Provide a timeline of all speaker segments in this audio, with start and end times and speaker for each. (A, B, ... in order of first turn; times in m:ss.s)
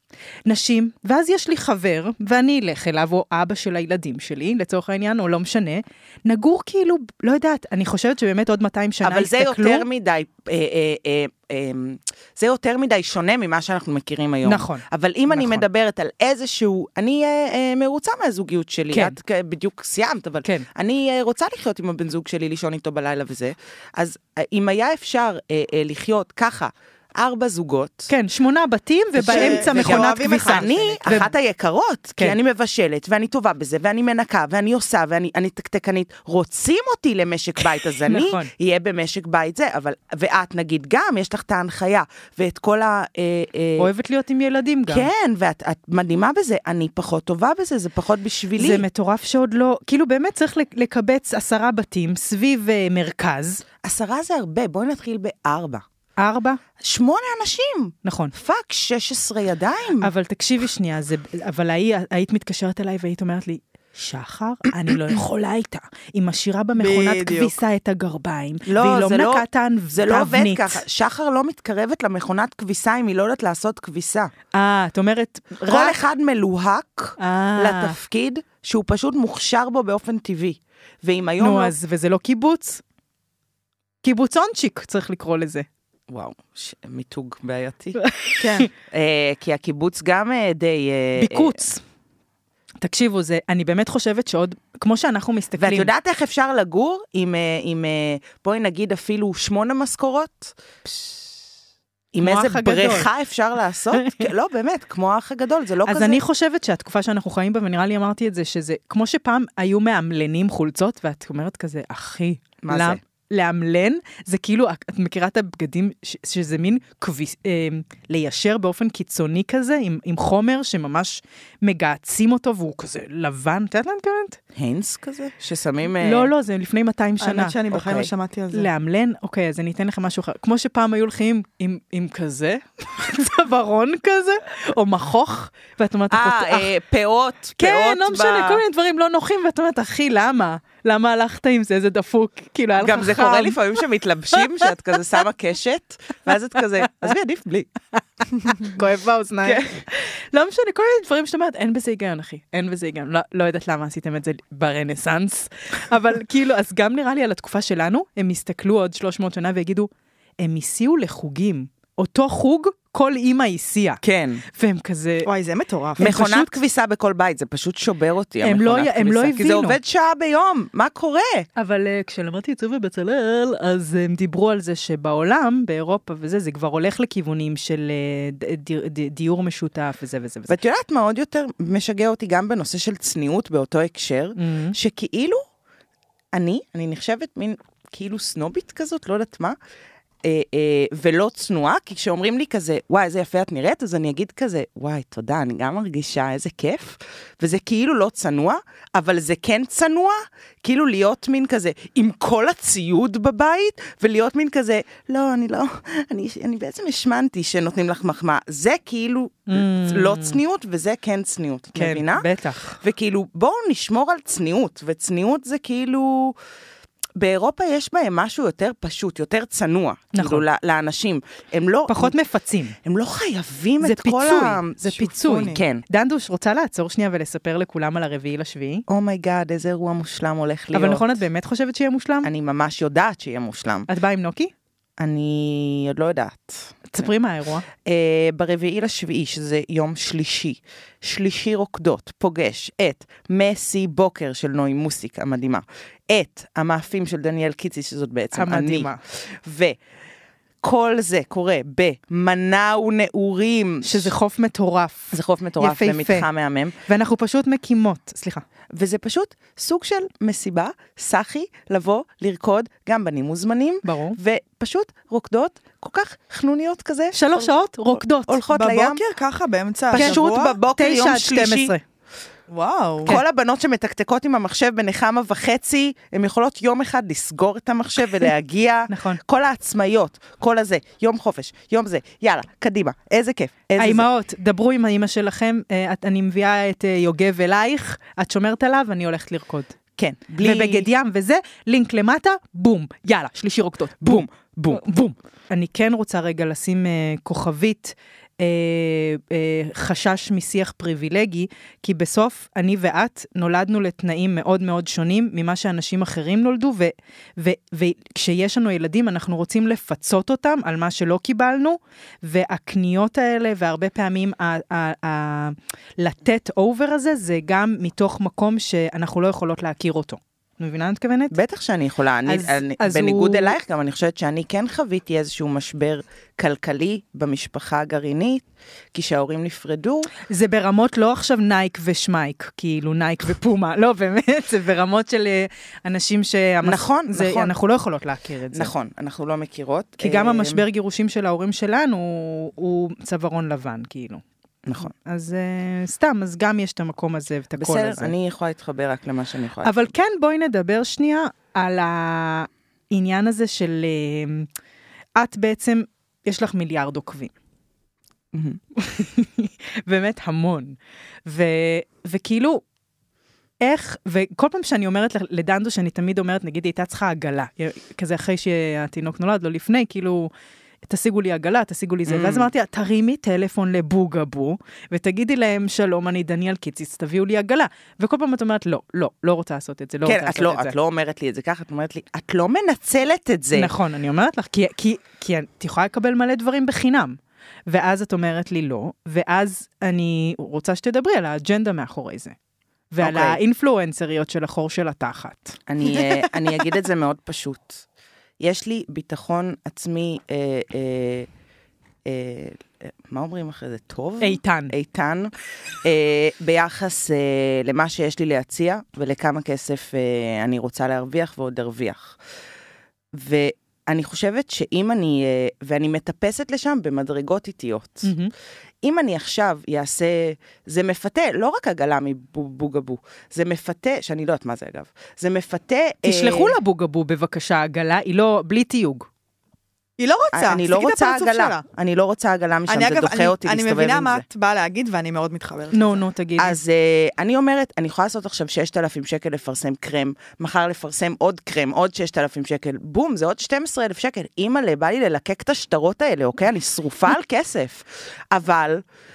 0:00.5-0:09.9 A
0:09.0-0:28.1 B
0:14.4-0:15.6 A
0:18.9-0:19.2 A
0:28.1-0:31.3 A
0:29.2-0:43.9 B
0:29.2-0:31.3 C
0:38.1-0:38.5 A
0:43.8-0:45.1 A
0:44.9-0:48.8 B
0:48.6-0:53.6 A
0:53.8-0:55.8 B
0:56.2-0:56.6 A
0:56.8-1:00.1 B
0:58.0-0:58.3 A
1:00.0-1:10.8 A
1:06.8-1:07.5 C
1:08.7-1:14.3 B
1:14.5-1:16.0 A
1:15.6-1:21.7 B
1:17.2-1:18.0 A
1:21.4-1:22.8 A
1:24.0-1:25.7 A
1:26.1-1:28.0 B
1:28.0-1:28.7 A
1:28.4-1:28.7 C
1:28.8-1:31.6 B
1:31.2-1:31.8 A
1:32.8-1:35.9 A
1:35.6-1:40.6 B
1:42.1-1:46.2 B
1:42.2-1:43.1 A
1:44.0-1:44.3 A
1:45.9-2:04.4 A
1:52.6-1:53.0 B
2:04.6-2:06.3 B
2:06.0-2:07.6 A
2:07.2-2:08.7 C
2:07.7-2:08.1 B
2:08.5-2:16.7 A
2:16.1-2:18.6 B
2:17.6-2:23.8 A
2:22.8-2:27.7 B
2:24.3-2:24.7 A
2:28.4-2:44.0 A
2:29.4-2:29.8 B
2:44.0-2:44.4 B
2:44.5-2:45.3 A
2:45.2-2:46.0 C
2:46.0-2:46.6 A
2:46.0-2:51.5 B
2:48.4-2:49.8 A
2:51.6-3:00.6 A
3:00.5-3:05.4 B
3:04.4-3:04.8 A
3:06.3-3:09.6 B
3:10.2-3:32.3 B
3:29.5-3:30.4 A
3:31.8-3:32.8 A
3:32.8-3:36.4 B
3:37.2-3:42.1 B
3:40.1-3:40.4 A
3:41.9-3:42.8 A
3:42.8-3:45.8 B
3:43.8-3:48.8 A
3:45.1-3:45.6 C
3:48.9-3:51.1 B
3:50.7-3:52.3 A
3:52.2-3:53.9 B
3:53.9-3:54.5 A
3:55.0-3:57.1 B
3:56.9-3:57.7 A
3:57.8-4:09.8 B
4:08.3-4:09.0 A
4:10.6-4:14.1 B
4:13.8-4:16.3 A
4:15.1-4:16.8 B
4:16.8-4:18.4 A
4:18.7-4:27.5 B
4:23.8-4:24.2 A
4:27.1-4:28.4 A
4:28.1-4:29.0 B
4:28.5-4:30.6 C
4:29.9-4:31.7 B
4:29.9-4:31.8 A
4:32.5-4:33.1 C
4:33.0-4:44.1 B
4:38.9-4:39.2 A
4:43.8-4:49.8 A
4:50.0-4:50.9 B
4:50.4-5:21.4 A
4:54.0-4:54.9 B
5:21.3-5:30.1 B
5:22.3-5:23.6 A
5:30.3-5:38.7 A
5:36.6-5:37.6 B
5:38.5-5:40.6 B
5:40.0-5:44.2 A
5:44.6-5:44.9 B
5:44.8-5:48.1 A
5:47.6-5:49.8 B
5:49.6-5:54.5 A
5:55.2-5:57.3 A
5:58.3-5:58.6 B
5:58.8-6:02.6 A
6:03.6-6:10.3 A
6:10.9-6:20.8 A
6:12.1-6:12.5 B
6:20.0-6:23.7 B
6:23.5-6:32.4 A
6:32.9-6:35.6 A
6:33.0-6:33.4 B
6:35.7-6:37.8 B
6:38.4-6:41.3 B
6:42.0-6:52.2 B
6:44.2-6:44.7 A
6:53.1-6:58.1 B
6:58.0-6:58.3 A
6:58.8-7:06.6 B
7:06.0-7:09.1 A
7:10.0-7:11.6 C
7:10.3-7:14.2 B
7:12.7-7:16.0 C
7:15.7-7:16.6 A
7:16.4-7:28.8 B